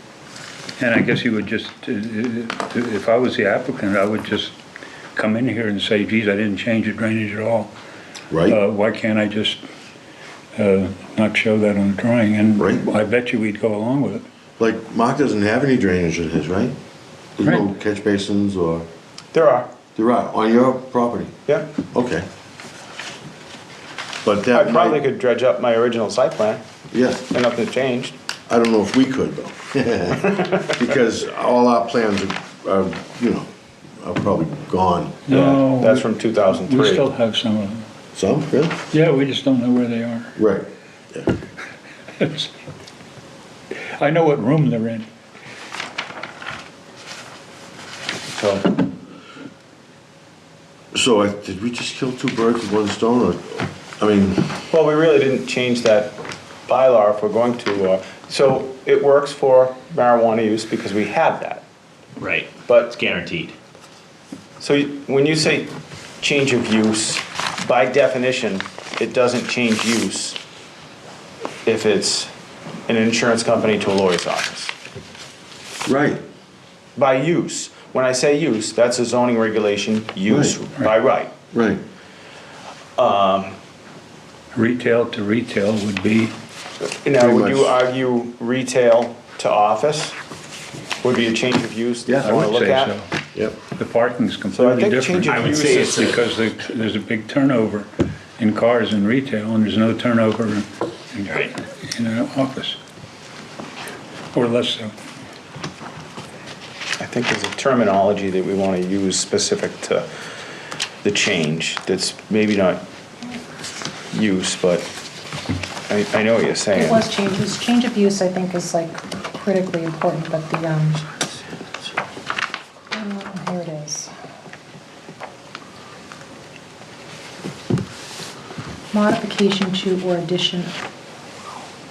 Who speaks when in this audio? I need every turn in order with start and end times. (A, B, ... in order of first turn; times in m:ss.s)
0:00.8-0:04.6 A
0:05.2-0:07.7 A
0:08.3-0:08.6 B
0:08.5-0:09.6 A
0:10.6-0:14.2 A
0:12.6-0:12.9 B
0:14.6-0:16.8 B
0:17.4-0:18.9 B
0:19.3-0:19.7 C
0:20.0-0:21.4 B
0:21.9-0:22.3 B
0:24.2-0:25.0 B
0:24.5-0:26.6 C
0:26.9-0:27.3 B
0:27.3-0:28.2 C
0:28.5-0:33.5 B
0:30.3-0:30.7 C
0:34.0-0:35.6 B
0:35.3-0:37.9 A
0:35.3-0:37.1 C
0:38.2-0:38.8 B
0:38.9-0:40.4 A
0:40.4-0:41.3 B
0:42.2-0:42.5 A
0:44.0-0:45.1 A
0:48.4-0:48.7 C
0:50.9-0:54.6 B
0:54.7-1:01.6 C
1:02.2-1:03.6 D
1:02.7-1:02.9 C
1:04.6-1:10.4 C
1:11.6-1:12.3 C
1:12.9-1:14.7 C
1:15.8-1:16.2 B
1:17.0-1:21.3 C
1:20.3-1:20.6 B
1:21.5-1:21.8 B
1:23.0-1:23.6 C
1:24.5-1:26.3 A
1:26.8-1:30.2 C
1:27.2-1:27.7 B
1:31.0-1:32.9 C
1:32.1-1:32.5 B
1:32.2-1:42.8 A
1:34.5-1:36.2 C
1:35.3-1:36.2 D
1:44.3-1:44.9 A
1:47.0-1:50.1 C
1:51.0-1:52.8 C
1:54.1-1:54.9 C
1:55.9-1:57.1 C
1:56.7-2:01.1 E
2:02.9-2:04.1 E
2:08.9-2:10.8 E